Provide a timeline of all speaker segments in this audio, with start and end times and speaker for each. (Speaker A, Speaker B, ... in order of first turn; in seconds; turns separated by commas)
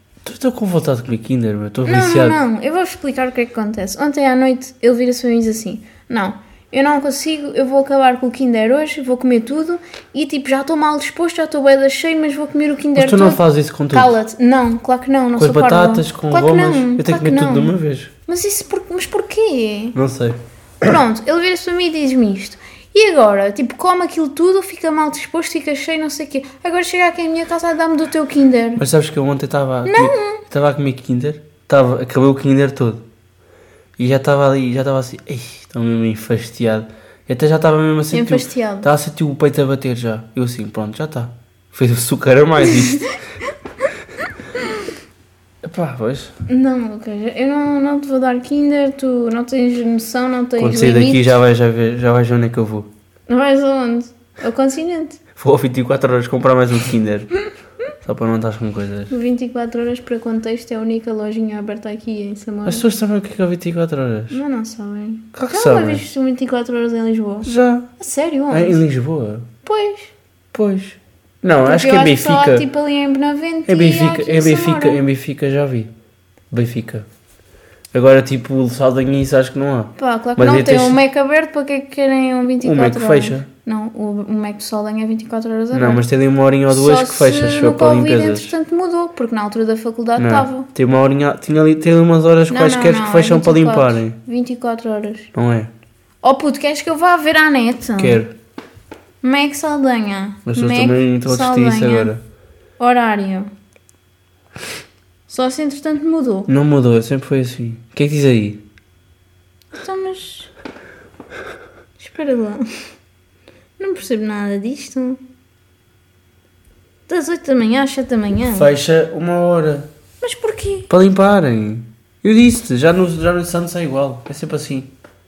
Speaker A: 0.2-2.4, Speaker B: 1.8-13.4, Speaker A: 12.9-14.1, Speaker B: 13.9-17.7, Speaker A: 15.4-18.1, Speaker B: 18.3-19.9, Speaker A: 19.9-21.0, Speaker B: 20.8-28.8, Speaker A: 28.8-33.0, Speaker B: 29.8-30.4, Speaker A: 34.0-43.1, Speaker B: 38.1-38.9, Speaker A: 45.6-46.3, Speaker B: 46.5-51.3, Speaker A: 50.6-52.9, Speaker B: 53.3-55.2, Speaker A: 55.4-57.3, Speaker A: 58.0-59.1, Speaker B: 59.1-62.8, Speaker A: 62.6-64.4, Speaker B: 64.3-68.8, Speaker A: 65.3-66.0, Speaker A: 67.4-67.9, Speaker A: 68.5-69.5, Speaker B: 69.6-70.1, Speaker A: 70.5-72.7, Speaker B: 71.6-75.0, Speaker A: 73.7-75.9, Speaker A: 76.5-77.1, Speaker A: 77.9-81.0, Speaker B: 80.0-86.0, Speaker A: 82.6-83.5, Speaker A: 85.7-88.5, Speaker B: 86.7-90.7, Speaker A: 90.2-94.2, Speaker B: 92.5-95.3, Speaker A: 95.3-95.7, Speaker B: 96.2-98.2, Speaker A: 98.0-98.3, Speaker B: 99.2-102.1, Speaker A: 100.5-102.2, Speaker B: 102.8-103.5, Speaker B: 105.3-106.5, Speaker A: 106.5-108.6, Speaker B: 109.7-110.5, Speaker B: 112.0-112.6, Speaker B: 113.8-115.2, Speaker B: 117.1-118.7, Speaker A: 118.4-119.9, Speaker B: 120.2-120.9, Speaker A: 120.9-124.9